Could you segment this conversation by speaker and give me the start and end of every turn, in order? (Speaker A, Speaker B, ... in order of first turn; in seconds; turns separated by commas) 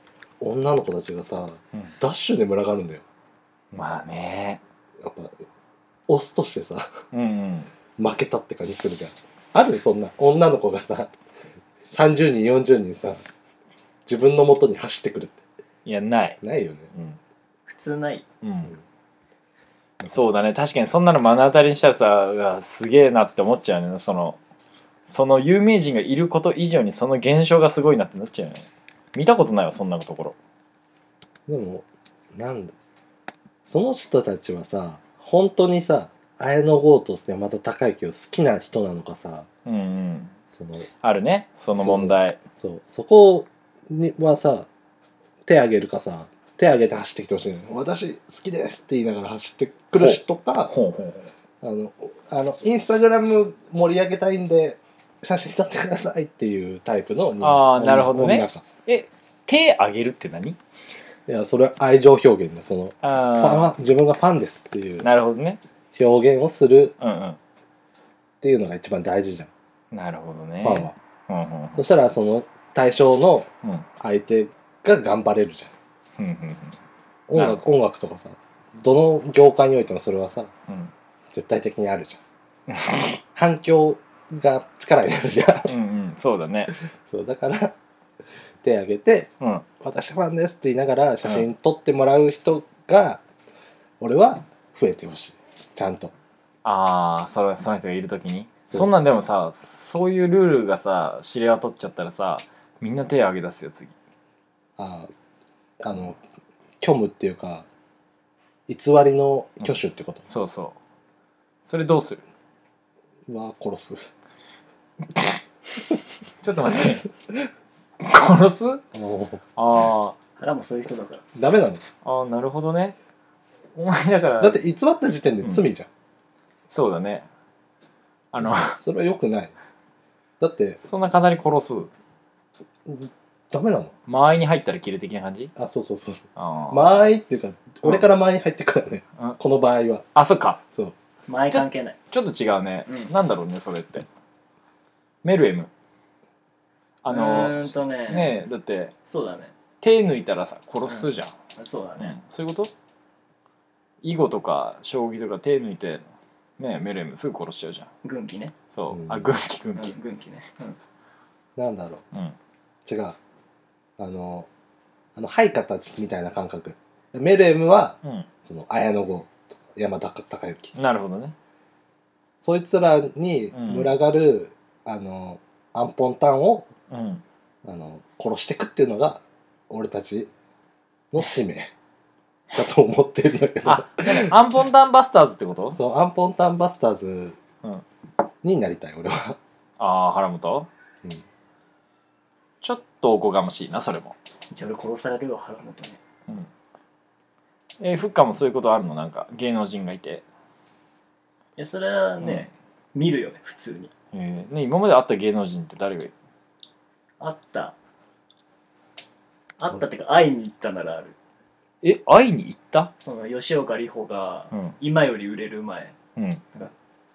Speaker A: 0.4-3.0, Speaker B: 3.7-4.6, Speaker A: 5.0-5.4, Speaker A: 6.1-7.0, Speaker B: 7.1-7.7, Speaker A: 8.0-11.1, Speaker A: 11.9-13.2, Speaker A: 14.1-15.4, Speaker B: 15.8-16.4, Speaker A: 16.4-16.9, Speaker C: 17.7-18.2, Speaker B: 18.4-18.7, Speaker B: 20.1-24.4, Speaker B: 25.1-30.4, Speaker A: 31.5-32.7, Speaker A: 33.7-39.5, Speaker B: 39.6-40.3, Speaker A: 40.5-40.9, Speaker B: 41.0-42.4, Speaker A: 41.7-44.7, Speaker A: 45.5-50.7, Speaker B: 50.0-51.3, Speaker A: 51.6-58.6, Speaker B: 57.4-60.6, Speaker A: 61.3-65.1, Speaker B: 63.0-63.7, Speaker B: 65.0-65.6, Speaker A: 65.9-66.9, Speaker B: 67.0-67.4, Speaker A: 68.4-69.5, Speaker B: 69.9-71.9, Speaker A: 70.6-70.9, Speaker A: 71.7-75.7, Speaker B: 76.2-76.8, Speaker A: 77.3-80.5, Speaker B: 77.3-77.6, Speaker A: 81.3-82.2, Speaker B: 82.7-83.2, Speaker A: 83.3-85.7, Speaker B: 85.7-86.7, Speaker A: 87.1-87.7, Speaker A: 88.6-93.2, Speaker A: 94.0-96.1, Speaker B: 96.6-103.9, Speaker A: 104.8-105.1, Speaker A: 105.8-106.2, Speaker A: 106.8-107.7, Speaker A: 108.7-110.3, Speaker B: 110.3-110.8, Speaker B: 111.6-112.2, Speaker A: 113.3-114.1, Speaker B: 116.4-117.1, Speaker B: 118.0-118.8, Speaker A: 118.9-119.4, Speaker B: 119.6-120.1, Speaker C: 120.4-121.2, Speaker A: 121.3-121.8, Speaker B: 122.0-123.0, Speaker B: 123.7-124.6, Speaker A: 124.4-125.9, Speaker B: 126.7-127.2, Speaker B: 128.3-128.8, Speaker A: 128.4-129.5, Speaker A: 130.4-130.8, Speaker B: 130.8-131.9, Speaker A: 132.8-133.9, Speaker B: 134.1-135.5, Speaker A: 135.6-140.0, Speaker B: 136.4-136.9, Speaker B: 140.1-140.6, Speaker C: 141.2-142.0, Speaker B: 141.5-144.1, Speaker C: 142.9-143.1, Speaker B: 145.2-145.7, Speaker B: 147.0-148.9, Speaker C: 147.1-148.4, Speaker C: 149.1-149.5, Speaker B: 149.8-151.3, Speaker C: 150.8-152.2, Speaker B: 152.0-152.7, Speaker B: 154.0-156.0, Speaker B: 156.6-157.9, Speaker C: 158.0-158.5, Speaker B: 158.7-159.9, Speaker A: 158.9-159.3, Speaker C: 159.8-160.8, Speaker A: 161.6-162.0, Speaker A: 162.8-163.2, Speaker A: 164.0-164.5, Speaker A: 165.2-170.7, Speaker B: 170.8-171.3, Speaker A: 172.4-176.7, Speaker B: 173.5-173.9, Speaker B: 176.9-177.2, Speaker A: 177.6-180.3, Speaker A: 181.1-181.7, Speaker A: 182.5-184.3, Speaker B: 183.6-185.8, Speaker A: 185.7-187.4, Speaker A: 188.4-189.4, Speaker B: 189.8-190.7, Speaker B: 192.6-194.1, Speaker C: 194.5-196.0, Speaker B: 197.8-200.2, Speaker C: 201.6-203.9, Speaker B: 202.2-202.5, Speaker B: 204.1-206.1, Speaker C: 207.2-207.7, Speaker C: 209.6-211.2, Speaker B: 211.8-212.9, Speaker C: 213.0-215.9, Speaker B: 214.5-214.8, Speaker B: 216.2-216.4